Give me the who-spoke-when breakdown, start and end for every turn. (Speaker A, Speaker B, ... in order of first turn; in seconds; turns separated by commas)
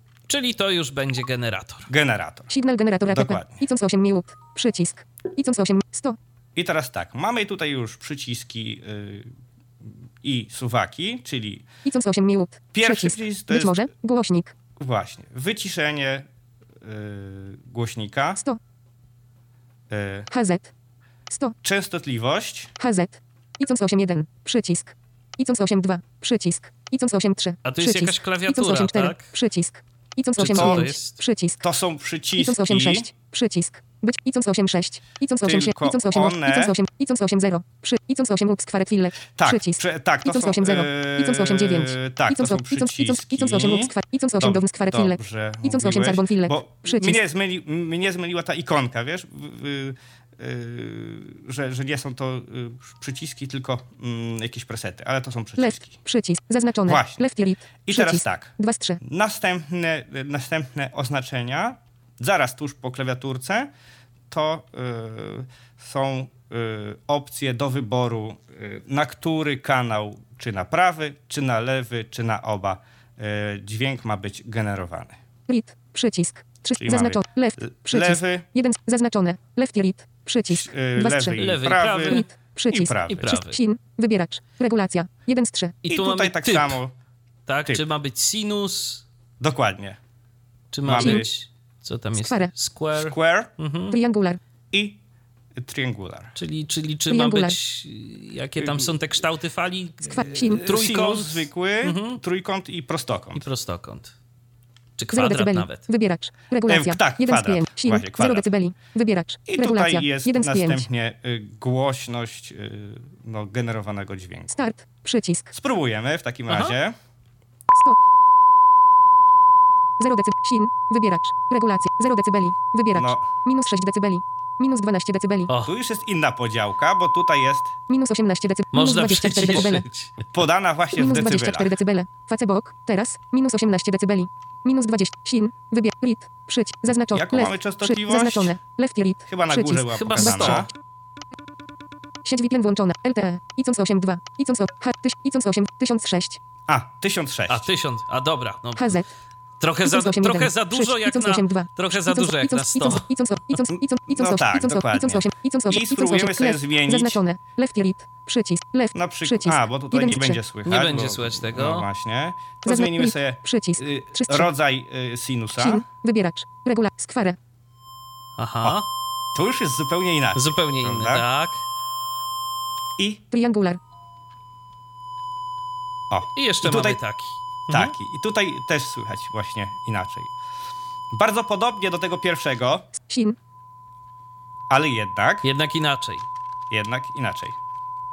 Speaker A: 0.3-1.9, Speaker B: 1.9-2.5, Speaker C: 2.5-6.2, Speaker B: 3.1-3.6, Speaker B: 6.5-11.6, Speaker C: 11.8-14.5, Speaker B: 12.7-13.8, Speaker B: 14.8-16.3, Speaker B: 16.8-18.4, Speaker B: 19.9-20.3, Speaker C: 20.3-20.7, Speaker C: 21.3-21.6, Speaker B: 21.6-22.7, Speaker C: 22.8-31.6, Speaker A: 27.6-29.3, Speaker A: 30.4-31.1, Speaker B: 30.4-30.9, Speaker B: 31.6-33.1, Speaker C: 32.4-47.2, Speaker B: 35.4-36.8, Speaker B: 39.4-55.9, Speaker C: 55.6-59.0, Speaker B: 56.9-57.2, Speaker B: 57.9-63.7, Speaker B: 64.3-75.2, Speaker C: 75.5-81.5, Speaker B: 76.8-78.5, Speaker B: 80.5-83.4, Speaker A: 81.3-82.3, Speaker C: 82.0-85.8, Speaker A: 83.1-83.6, Speaker A: 85.8-86.8, Speaker B: 85.9-86.9, Speaker A: 87.5-89.0, Speaker B: 89.4-90.0, Speaker A: 90.7-94.0, Speaker B: 90.8-91.3, Speaker C: 91.0-91.2, Speaker C: 92.2-92.5, Speaker B: 92.9-93.5, Speaker C: 93.9-94.4, Speaker B: 94.7-95.0, Speaker B: 95.5-96.3, Speaker A: 96.4-102.2, Speaker C: 97.1-97.5, Speaker B: 98.6-98.9, Speaker C: 100.0-100.6, Speaker B: 100.2-103.5, Speaker A: 103.3-104.1, Speaker A: 105.0-105.8, Speaker C: 105.1-110.8, Speaker B: 106.7-108.5, Speaker B: 109.5-114.6, Speaker C: 114.5-115.5, Speaker B: 115.5-117.0, Speaker A: 116.5-116.8, Speaker C: 117.7-118.0, Speaker C: 120.0-125.5, Speaker B: 122.9-123.3, Speaker A: 125.5-125.7, Speaker B: 125.6-127.7, Speaker C: 127.9-129.8, Speaker A: 128.7-130.3, Speaker B: 130.3-131.8, Speaker C: 130.9-140.6, Speaker B: 137.1-138.6, Speaker B: 139.3-140.7, Speaker A: 139.9-140.7, Speaker C: 142.2-146.4, Speaker B: 146.7-147.7, Speaker A: 147.5-149.0, Speaker C: 148.8-149.1, Speaker A: 149.6-153.1, Speaker C: 149.8-160.4, Speaker B: 153.7-157.2, Speaker B: 158.9-165.8, Speaker A: 160.6-161.8, Speaker C: 162.6-164.5, Speaker C: 165.6-167.4, Speaker A: 168.4-168.8, Speaker B: 169.3-171.2, Speaker A: 170.3-171.6, Speaker C: 173.3-173.8, Speaker B: 176.1-177.0, Speaker A: 176.4-177.9, Speaker B: 177.7-180.3, Speaker B: 181.1-182.9, Speaker C: 182.9-183.3, Speaker B: 184.7-185.5, Speaker A: 185.4-186.2, Speaker B: 186.7-187.6